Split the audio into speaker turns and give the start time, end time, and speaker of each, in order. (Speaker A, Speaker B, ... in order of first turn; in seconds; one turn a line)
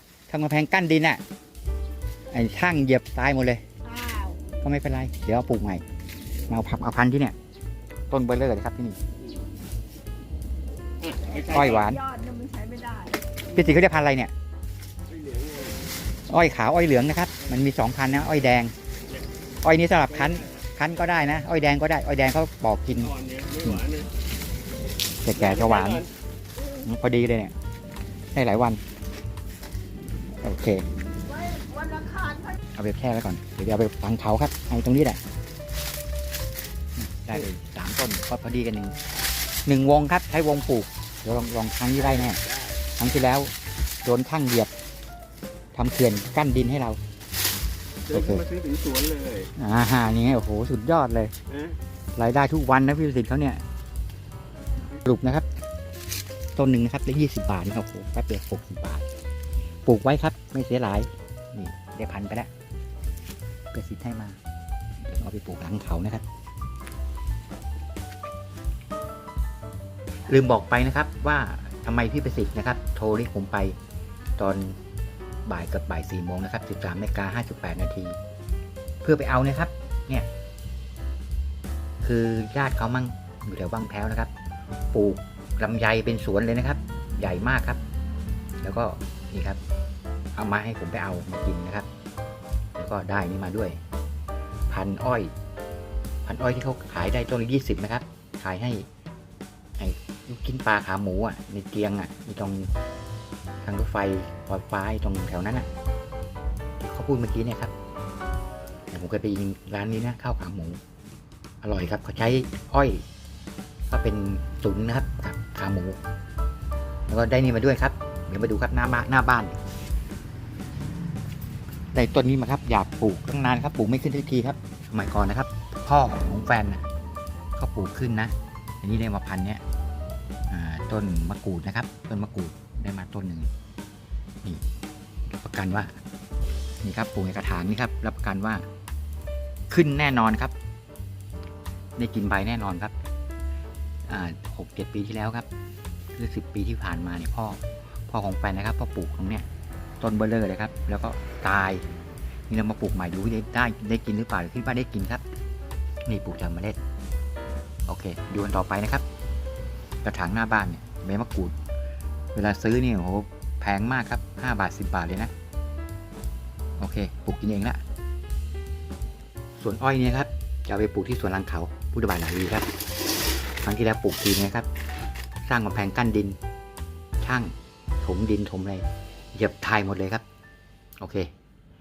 Speaker A: 0.3-1.2
Speaker A: 2.3-3.6
Speaker B: 3.8-4.4
Speaker A: 4.6-5.8
Speaker A: 6.5-7.3
Speaker A: 8.1-9.0
Speaker C: 11.0-12.0
Speaker B: 11.4-13.2
Speaker A: 11.5-12.0
Speaker A: 13.5-14.3
Speaker C: 15.1-15.9
Speaker A: 16.3-18.7
Speaker A: 19.6-23.1
Speaker C: 20.0-20.5
Speaker C: 22.9-24.1
Speaker A: 25.2-26.0
Speaker C: 25.3-26.1
Speaker A: 26.8-27.5
Speaker A: 28.3-28.8
Speaker A: 30.4-30.8
Speaker B: 31.3-32.5
Speaker A: 32.7-35.2
Speaker A: 37.0-39.0
Speaker A: 39.6-42.4
Speaker C: 41.9-42.8
Speaker A: 43.0-43.5
Speaker A: 44.0-44.7
Speaker A: 45.7-47.0
Speaker C: 48.0-49.5
Speaker A: 48.1-48.4
Speaker A: 49.6-51.3
Speaker C: 51.5-51.8
Speaker A: 52.1-53.6
Speaker A: 54.9-55.5
Speaker A: 56.5-59.0
Speaker A: 59.9-62.5
Speaker A: 63.7-64.4
Speaker A: 65.0-66.2
Speaker A: 70.3-73.8
Speaker A: 74.4-74.8
Speaker A: 75.5-78.2
Speaker A: 79.0-80.3
Speaker A: 82.0-84.3
Speaker A: 84.9-87.8
Speaker A: 88.6-89.6
Speaker A: 90.3-91.9
Speaker A: 92.8-93.8
Speaker A: 94.7-95.3
Speaker A: 96.2-98.8
Speaker A: 99.8-102.7
Speaker A: 103.6-105.7
Speaker A: 106.8-107.7
Speaker A: 108.9-110.8
Speaker A: 111.6-113.0
Speaker A: 113.9-116.0
Speaker A: 117.1-119.6
Speaker A: 121.9-126.9
Speaker A: 127.6-129.6
Speaker A: 130.5-133.5
Speaker A: 135.3-136.0
Speaker A: 136.8-138.6
Speaker A: 139.7-140.5
Speaker A: 142.0-142.9
Speaker A: 144.1-145.5
Speaker A: 146.1-149.5
Speaker A: 150.0-151.8
Speaker A: 152.5-155.2
Speaker A: 156.1-156.8
Speaker A: 157.9-159.0
Speaker A: 160.0-161.5
Speaker A: 162.3-165.3
Speaker A: 166.8-167.8
Speaker A: 169.6-172.7
Speaker A: 173.6-174.7
Speaker A: 175.4-176.4
Speaker A: 177.2-180.2
Speaker A: 181.0-181.3